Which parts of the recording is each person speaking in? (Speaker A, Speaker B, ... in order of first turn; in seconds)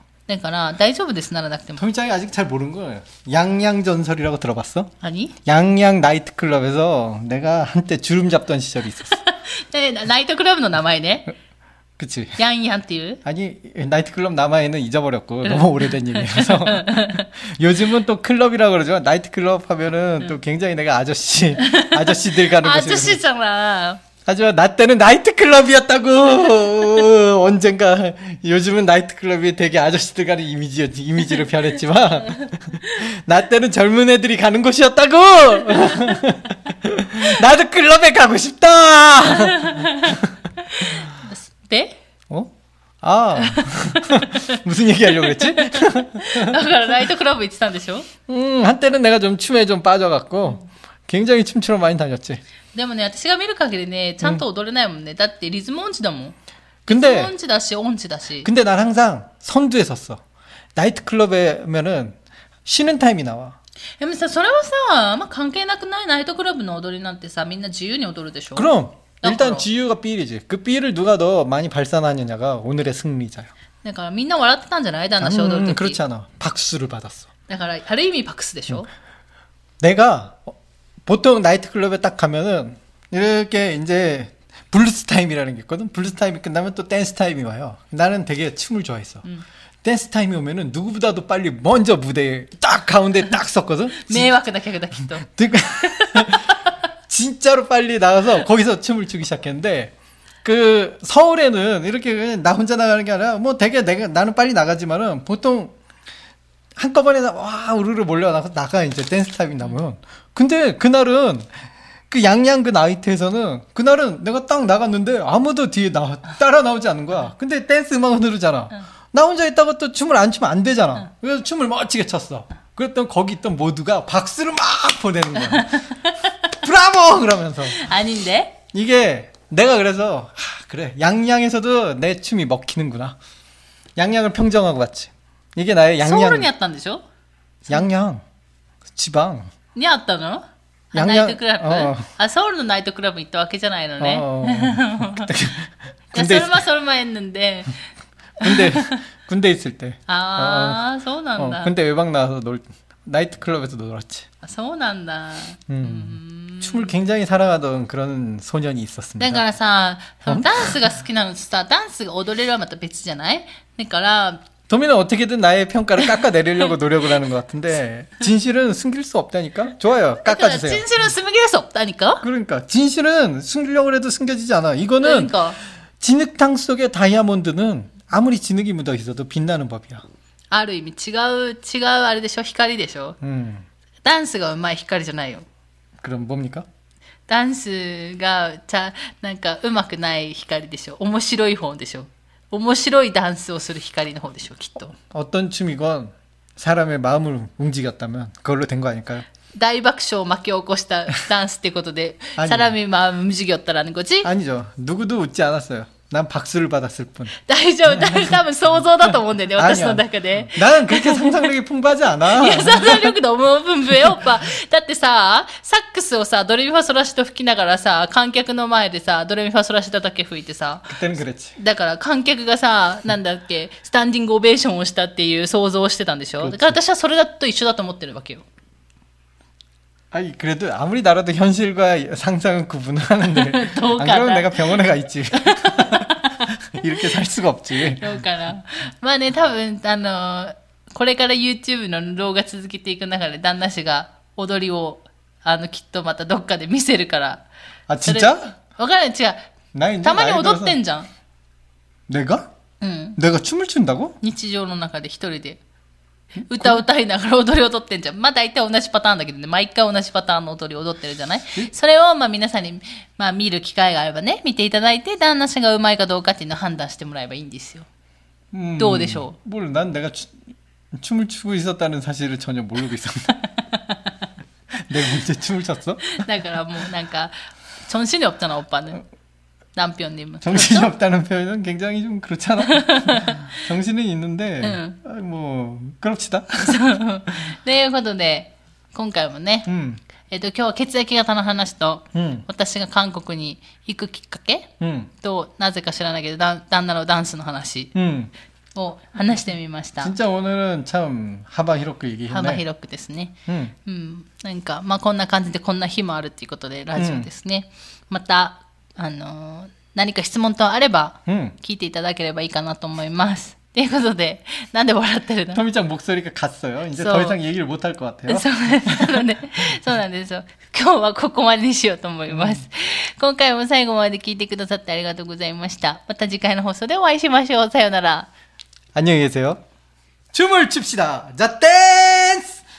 Speaker A: 0.3-1.8, 5.0-5.3, 9.1-11.3, 12.4-13.2, 15.4-17.2, 21.6-24.0, 39.2-42.0, 43.4-44.6, 45.2-48.1, 52.7-56.4, 56.9-58.5, 64.0-68.7, 69.2-69.7, 73.8-76.0, 77.5-78.9, 93.9-95.3, 95.8-96.8, 125.5-126.4, 127.7-128.6, 136.0-137.0, 139.7-145.5, 146.1-147.8, 148.4-149.0, 150.1-151.7, 154.4-156.9, 159.2-164.5, 170.2-172.2, 175.0-175.6, 180.5-183.2, 184.0-185.4, 187.3-194.9, 199.5-204.3, 207.4-211.5, 212.2-221.0, 221.6-228.4, 233.2-237.2, 237.7-247.4, 248.0-249.5, 250.0-251.1, 252.8-253.2, 254.2-255.6, 256.4-267.9, 268.8-269.3, 273.6-274.0, 276.0-279.0, 279.8-280.9, 282.6-283.6, 284.6-285.0, 286.6-289.7, 290.3-297.9, 298.7-300.1, 302.3-315.6, 316.9-317.4, 318.3-328.3
Speaker B: 1.8-4.9, 5.4-9.2, 12.0-12.4, 13.2-23.2, 24.2-41.0, 42.3-46.6, 48.3-52.4, 56.9-57.3, 58.4-60.2, 60.8-63.5, 68.5-73.5, 75.2-77.3, 79.8-80.5, 81.0-89.2, 89.8-94.3, 95.2-99.9, 100.4-105.7, 106.8-111.5, 112.1-125.8, 126.5-127.8, 128.7-133.2, 133.9-136.5, 137.7-138.2, 138.9-139.5, 140.9-142.1, 144.0-146.6, 148.4-150.8, 151.4-154.3, 155.7-159.4, 160.3-160.7, 164.7-170.8, 172.2-175.3, 176.0-180.0, 183.2-183.7, 186.0-186.7, 194.9-199.3, 202.4-202.7, 204.2-207.3, 207.9-208.4, 209.0-213.1, 220.9-221.6, 226.4-226.8, 230.1-238.2, 247.9-248.5, 249.7-250.8, 252.1-252.5, 253.2-254.2, 268.5-270.4, 270.9-273.4, 274.8-276.2, 280.4-286.8, 289.7-290.0, 292.1-292.4, 294.8-295.1, 297.9-298.3, 300.0-302.6, 303.5-303.7, 307.0-307.3, 311.3-311.6, 315.5-319.2, 322.3-322.6, 328.9-329.6, 330.3-332.6